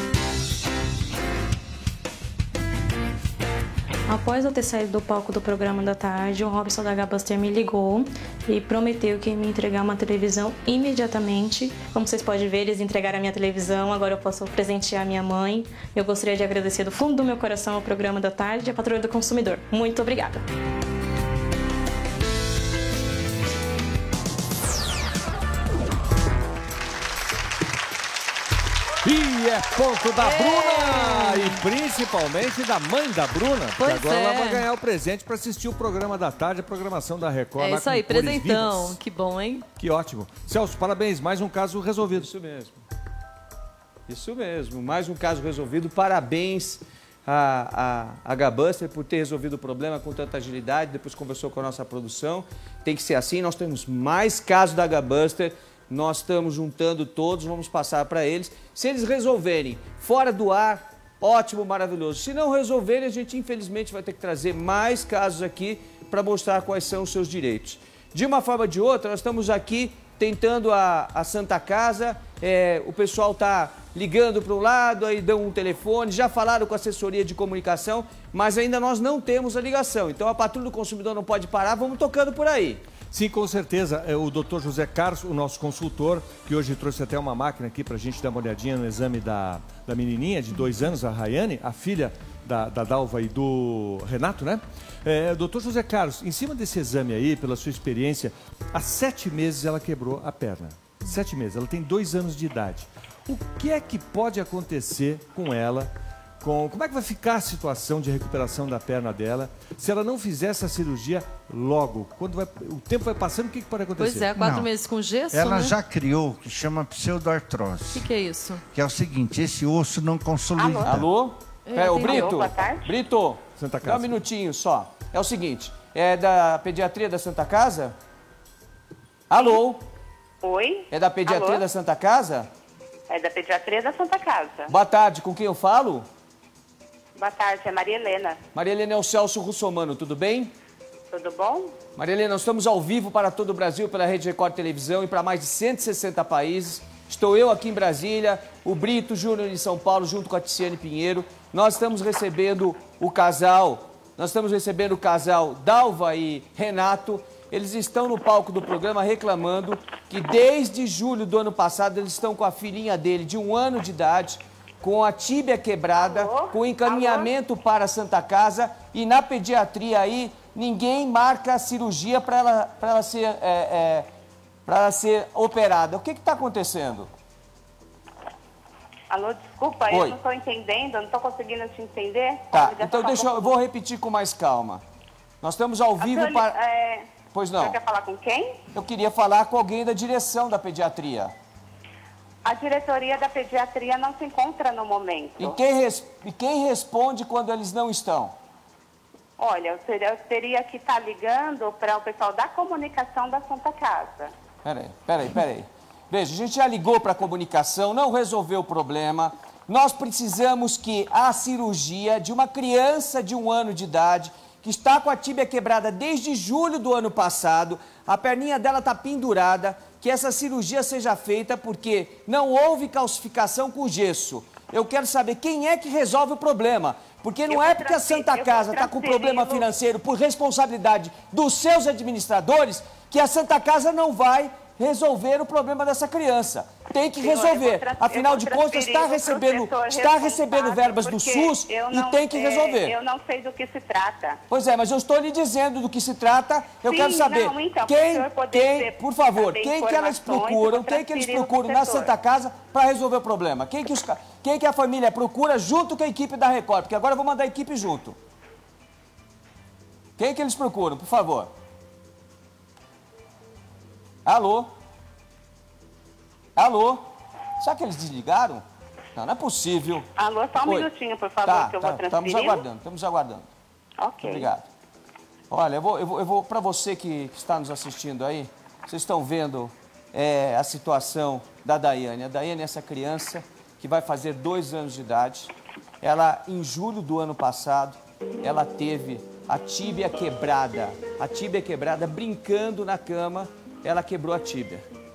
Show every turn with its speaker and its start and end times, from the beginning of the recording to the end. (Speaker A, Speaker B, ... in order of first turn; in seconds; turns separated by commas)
Speaker A: 4.1-20.4, Speaker B: 29.0-39.0, Speaker C: 30.2-31.6, Speaker C: 33.8-34.6, Speaker C: 37.6-39.7, Speaker B: 39.8-42.3, Speaker D: 42.1-42.8, Speaker D: 44.1-82.8, Speaker B: 83.1-114.3, Speaker C: 114.0-115.7, Speaker E: 114.3-114.7, Speaker E: 115.3-118.1, Speaker C: 117.9-118.6, Speaker E: 118.7-121.1, Speaker F: 120.6-121.0, Speaker D: 120.8-128.0, Speaker C: 121.7-122.4, Speaker F: 121.9-123.0, Speaker B: 123.6-124.1, Speaker D: 129.3-129.8, Speaker F: 129.3-129.6, Speaker F: 130.4-131.6, Speaker D: 130.9-132.5, Speaker F: 133.1-134.7, Speaker D: 134.7-136.1, Speaker F: 137.2-138.4, Speaker D: 138.5-140.5, Speaker F: 141.1-141.8, Speaker D: 141.9-174.1, Speaker F: 165.9-167.3, Speaker D: 174.7-177.1, Speaker F: 179.1-183.6, Speaker D: 179.9-180.2, Speaker D: 182.5-184.8, Speaker D: 185.4-186.5, Speaker F: 186.0-188.6, Speaker D: 187.3-187.8, Speaker D: 188.7-191.3, Speaker F: 192.4-195.6, Speaker D: 195.4-198.3, Speaker F: 199.4-204.3, Speaker D: 204.6-243.0, Speaker F: 227.4-229.7, Speaker F: 237.1-244.4, Speaker D: 244.5-258.2, Speaker F: 246.8-252.1, Speaker D: 260.2-261.5, Speaker D: 264.2-264.7, Speaker D: 266.6-267.0, Speaker D: 267.6-268.6, Speaker D: 269.1-270.1, Speaker F: 270.1-272.6, Speaker D: 270.6-270.9, Speaker D: 271.4-273.5, Speaker F: 274.0-274.5, Speaker D: 274.2-274.6, Speaker D: 275.5-294.8